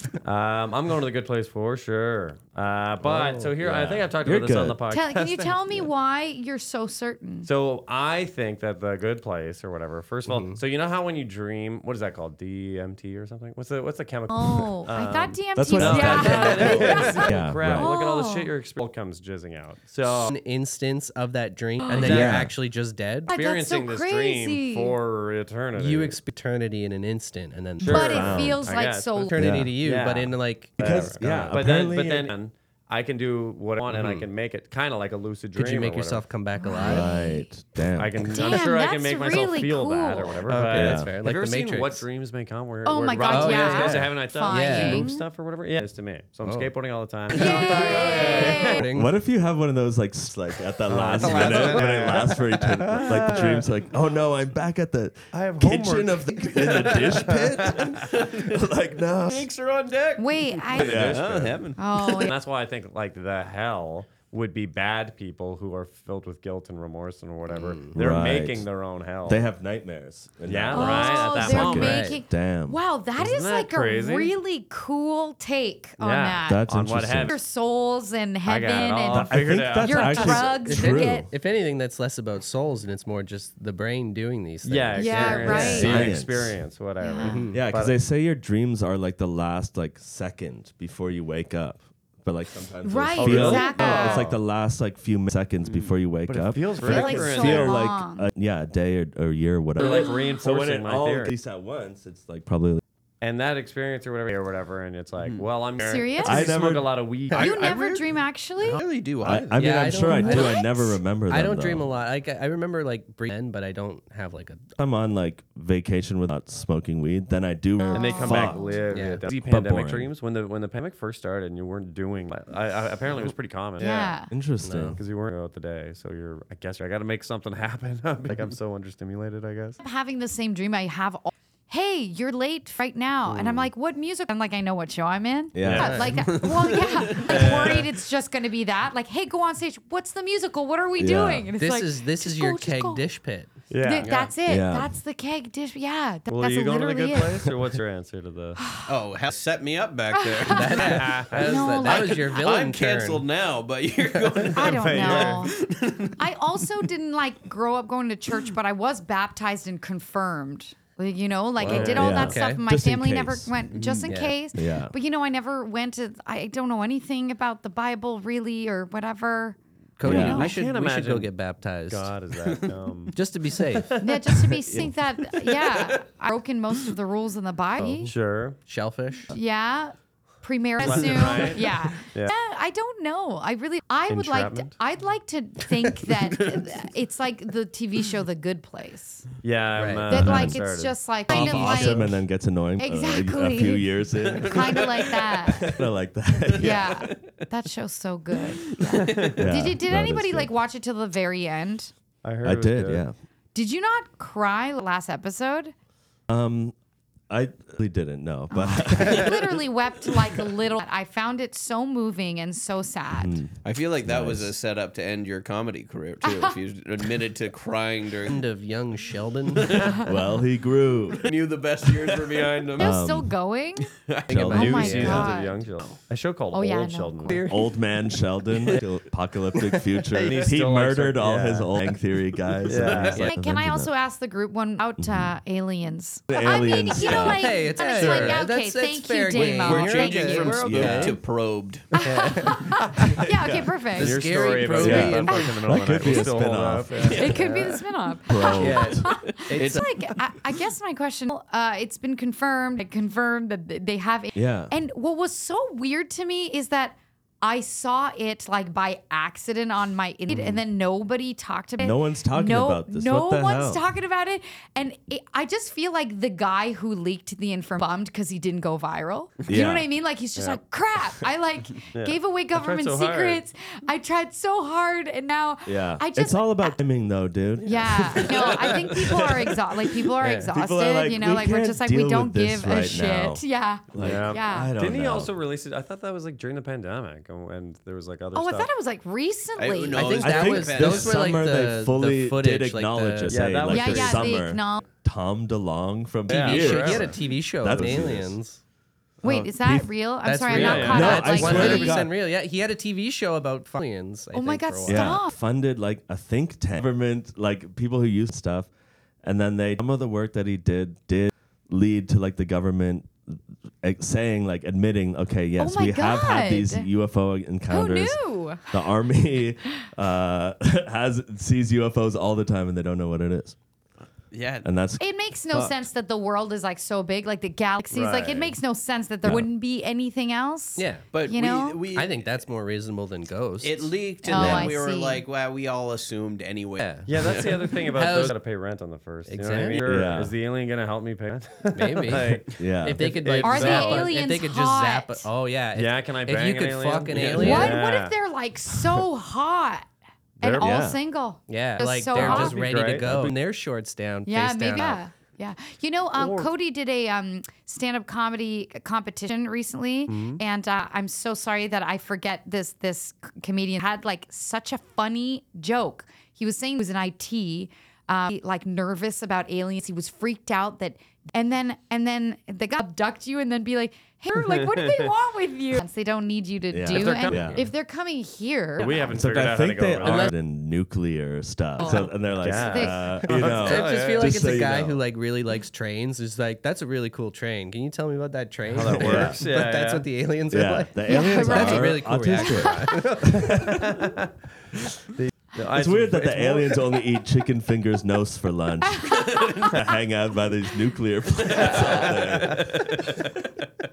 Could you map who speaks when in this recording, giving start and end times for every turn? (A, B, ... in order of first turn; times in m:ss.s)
0:00.2-0:05.6 A
0:03.0-0:03.6 B
0:03.6-0:04.8 C
0:04.9-0:07.5 D
0:07.5-0:20.3 A
0:10.3-0:10.6 B
0:14.3-0:18.5 D
0:15.6-0:17.9 C
0:16.2-0:17.2 B
0:20.0-0:23.4 B
0:21.8-0:22.1 D
0:21.9-0:22.5 A
0:22.0-0:22.5 C
0:23.3-0:25.0 D
0:23.3-0:26.2 A
0:25.8-0:28.3 B
0:27.8-0:36.3 A
0:27.8-0:29.4 D
0:27.9-0:28.7 C
0:29.3-0:31.0 B
0:29.3-0:29.8 C
0:30.8-0:32.3 C
0:33.9-0:34.3 B
0:35.5-0:37.1 B
0:36.6-0:37.5 D
0:36.8-0:38.3 C
0:38.0-0:48.9 A
0:38.3-0:40.4 D
0:40.5-0:42.1 B
0:40.7-0:41.1 C
0:42.8-0:45.2 D
0:43.3-0:45.1 B
0:46.4-0:46.7 B
0:47.3-0:48.8 D
0:47.4-0:49.1 B
0:48.9-0:59.5 C
0:50.9-0:53.7 A
0:55.3-0:57.9 A
0:57.9-0:58.6 E
0:59.2-1:02.3 E
1:00.2-1:01.2 D
1:00.7-1:01.6 C
1:00.8-1:01.5 A
1:01.8-1:02.3 D
1:02.1-1:09.4 A
1:07.5-1:08.0 B
1:08.0-1:08.7 C
1:09.2-1:12.8 C
1:10.5-1:12.1 A
1:10.7-1:16.7 D
1:11.7-1:12.2 B
1:13.2-1:14.4 A
1:16.0-1:17.4 A
1:16.5-1:17.4 C
1:17.2-1:21.3 D
1:18.4-1:20.5 A
1:19.1-1:21.3 C
1:20.6-1:26.1 B
1:24.6-1:28.0 A
1:25.0-1:26.0 D
1:25.5-1:26.6 C
1:27.0-1:27.5 D
1:27.2-1:27.6 B
1:27.5-1:42.8 C
1:32.8-1:34.3 D
1:33.2-1:34.4 A
1:35.6-1:37.8 A
1:36.8-1:38.3 D
1:39.8-1:41.3 A
1:39.8-1:40.3 D
1:43.2-1:47.5 A
1:45.8-1:46.5 D
1:46.2-1:46.9 C
1:47.3-1:49.9 E
1:47.3-1:48.8 D
1:49.2-1:52.0 C
1:49.6-1:50.7 B
1:49.9-1:51.0 D
1:51.3-1:54.6 B
1:54.8-2:00.1 C
1:57.8-1:58.8 D
1:57.9-2:04.2 A
1:58.9-1:59.2 B
2:03.8-2:04.3 D
2:04.3-2:05.0 C
2:04.6-2:05.0 B
2:05.0-2:09.8 A
2:09.8-2:23.0 D
2:15.5-2:16.2 C
2:15.7-2:16.2 B
2:16.2-2:17.2 E
2:17.2-2:17.9 A
2:21.0-2:21.5 C
2:21.6-2:24.3 B
2:23.7-2:24.1 A
2:23.8-2:27.5 D
2:24.4-2:24.9 C
2:26.3-2:28.6 A
2:28.6-2:28.8 D
2:28.8-2:31.3 E
2:30.1-2:32.4 D
2:30.5-2:33.3 B
2:31.0-2:31.5 A
2:31.8-2:36.3 E
2:34.4-2:35.4 A
2:34.5-2:35.6 D
2:36.2-2:49.6 D
2:41.6-2:42.6 B
2:41.7-2:42.3 A
2:41.8-2:43.6 C
2:44.0-2:44.4 B
2:44.5-2:44.9 C
2:50.0-2:52.1 B
2:50.0-2:50.5 C
2:50.0-2:51.3 A
2:51.9-2:53.2 A
2:52.4-2:52.8 E
2:53.1-2:54.0 B
2:53.7-2:54.1 A
2:54.0-2:58.1 D
2:58.0-2:58.6 A
2:58.7-2:59.3 B
2:59.3-3:09.3 D
3:00.8-3:02.3 A
3:00.9-3:01.3 E
3:04.1-3:04.8 A
3:09.4-3:11.0 A
3:09.8-3:10.1 B
3:10.1-3:10.6 C
3:10.1-3:12.1 D
3:11.3-3:12.0 B
3:11.3-3:17.0 C
3:12.8-3:15.7 D
3:14.3-3:15.2 E
3:16.5-3:17.3 E
3:16.6-3:21.9 D
3:18.8-3:19.4 E
3:19.0-3:19.4 A
3:19.4-3:20.5 C
3:22.2-3:23.0 A
3:22.4-3:23.2 C
3:23.5-3:25.7 D
3:26.3-3:26.8 C
3:27.3-3:29.4 C
3:28.5-3:33.4 D
3:33.2-3:34.5 C
3:33.6-3:38.4 E
3:36.2-3:36.6 D
3:38.3-3:40.0 B
3:39.6-3:40.0 E
3:40.0-3:41.3 C
3:41.2-3:43.0 E
3:42.8-3:43.3 C
3:42.8-3:43.9 D
3:43.9-3:44.6 E
3:44.3-3:45.3 C
3:44.3-3:45.3 B
3:44.4-3:47.5 A
3:44.5-3:45.6 D
3:46.5-3:47.4 D
3:47.5-3:53.9 C
3:48.5-3:48.8 E
3:50.1-3:51.7 A
3:52.6-3:53.3 A
3:52.8-3:53.1 E
3:53.2-4:00.6 D
3:55.0-3:55.4 C
3:56.3-3:57.6 C
3:57.1-4:01.2 B
3:59.3-4:01.9 E
4:00.6-4:01.2 C
4:01.9-4:04.2 D
4:02.0-4:03.2 B
4:02.8-4:03.2 A
4:03.4-4:03.7 C
4:04.0-4:05.6 B
4:04.0-4:07.4 A
4:04.8-4:07.4 C
4:05.3-4:06.4 D
4:06.9-4:07.8 B
4:07.1-4:36.8 D
4:08.3-4:09.2 C
4:08.6-4:09.8 B
4:09.5-4:09.8 E
4:14.3-4:14.7 C
4:21.8-4:23.8 C
4:29.5-4:29.9 C
4:31.9-4:33.4 A
4:35.6-4:39.6 C
4:37.6-4:44.7 D
4:38.0-4:38.3 A
4:40.2-4:45.3 C
4:40.2-4:40.5 A
4:44.0-4:48.7 A
4:48.3-4:50.2 D
4:49.6-4:51.4 E
4:50.0-4:53.4 B
4:50.2-4:58.4 C
4:53.3-4:54.4 A
4:53.7-4:54.8 D
4:56.3-4:57.9 A
4:56.3-4:58.6 B
4:59.2-4:59.9 C
4:59.2-5:02.0 D
5:00.2-5:05.2 B
5:00.5-5:01.8 A
5:00.9-5:02.1 C
5:04.3-5:05.4 D
5:04.9-5:08.7 C
5:09.2-5:23.6 C
5:15.6-5:16.9 D
5:17.7-5:18.8 D
5:24.3-5:24.7 E
5:24.6-5:25.8 C
5:25.0-5:31.8 D
5:27.9-5:28.6 A
5:30.8-5:31.1 B
5:31.1-5:32.3 E
5:32.0-5:34.0 B
5:33.6-5:37.6 E
5:34.2-5:35.2 D
5:34.3-5:34.7 C
5:36.8-5:38.4 B
5:37.1-5:44.1 A
5:39.3-5:40.0 B
5:39.8-5:40.3 C
5:41.8-5:47.8 B
5:42.6-5:43.2 C
5:43.4-5:45.3 D
5:45.7-5:48.2 A
5:47.4-5:49.9 D
5:50.4-5:50.8 A
5:50.4-5:52.6 D
5:50.6-5:51.0 C
5:51.5-5:55.0 B
5:52.1-5:53.4 A
5:54.3-6:19.2 D
5:56.1-5:56.5 A
6:00.1-6:00.4 A
6:14.6-6:15.1 A
6:16.7-6:17.7 C
6:16.9-6:17.6 A
6:18.8-6:20.3 A
6:19.1-6:25.0 C
6:20.0-6:20.3 B
6:21.8-6:23.1 D
6:21.8-6:24.6 A
6:23.2-6:33.5 B
6:28.6-6:30.1 A
6:28.9-6:29.4 C
6:30.5-6:34.0 C
6:31.1-6:33.0 D
6:33.6-6:34.3 A
6:35.2-6:37.0 A
6:35.7-6:43.3 C
6:38.9-6:39.7 D
6:39.2-6:39.7 E
6:41.4-6:42.7 E
6:41.6-6:43.0 A